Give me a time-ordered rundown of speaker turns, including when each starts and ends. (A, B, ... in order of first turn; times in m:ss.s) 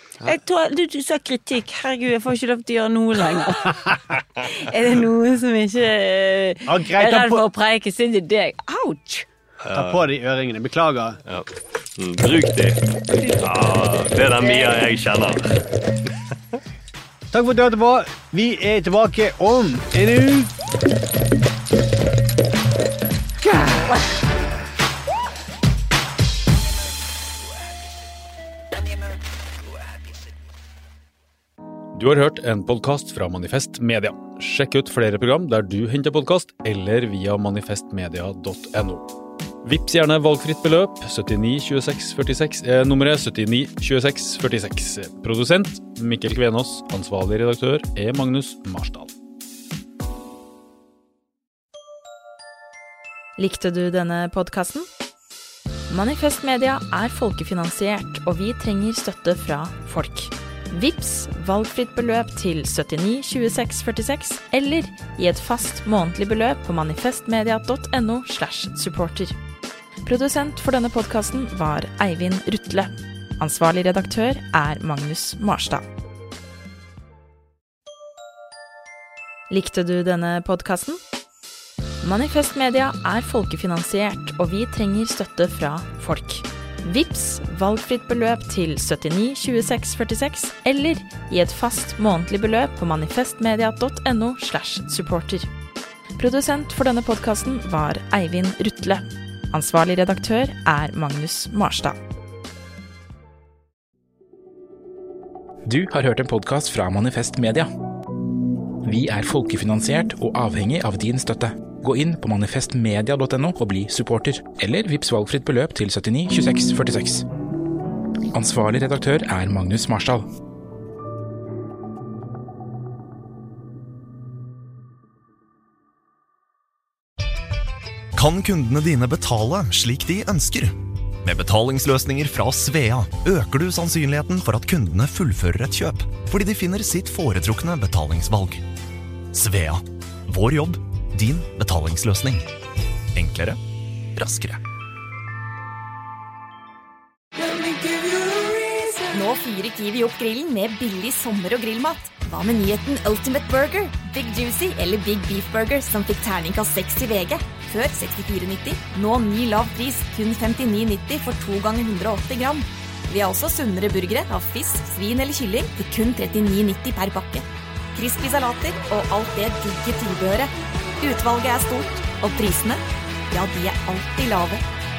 0:00.2-0:09.3 A
0:06.7-0:07.4 B
0:09.6-0:10.1 C
0:09.7-0:11.2 B
0:11.3-0:15.6 C
0:14.4-0:14.8 A
0:17.3-0:20.5 B
0:23.5-0:23.8 B
0:31.9-0:39.1 D
0:39.6-0:49.1 D
0:53.4-0:54.9 E
0:55.9-1:09.4 E
1:10.0-1:15.9 E
1:19.5-1:21.0 E
1:22.0-1:35.5 E
1:36.2-1:42.0 E
1:45.7-1:47.7 F
1:48.8-1:57.3 F
1:58.3-2:00.3 F
2:08.2-2:18.6 G
2:19.3-2:22.5 G
2:23.2-2:23.6 G
2:24.1-2:24.6 G
2:28.0-2:28.8 A
2:29.1-2:54.6 H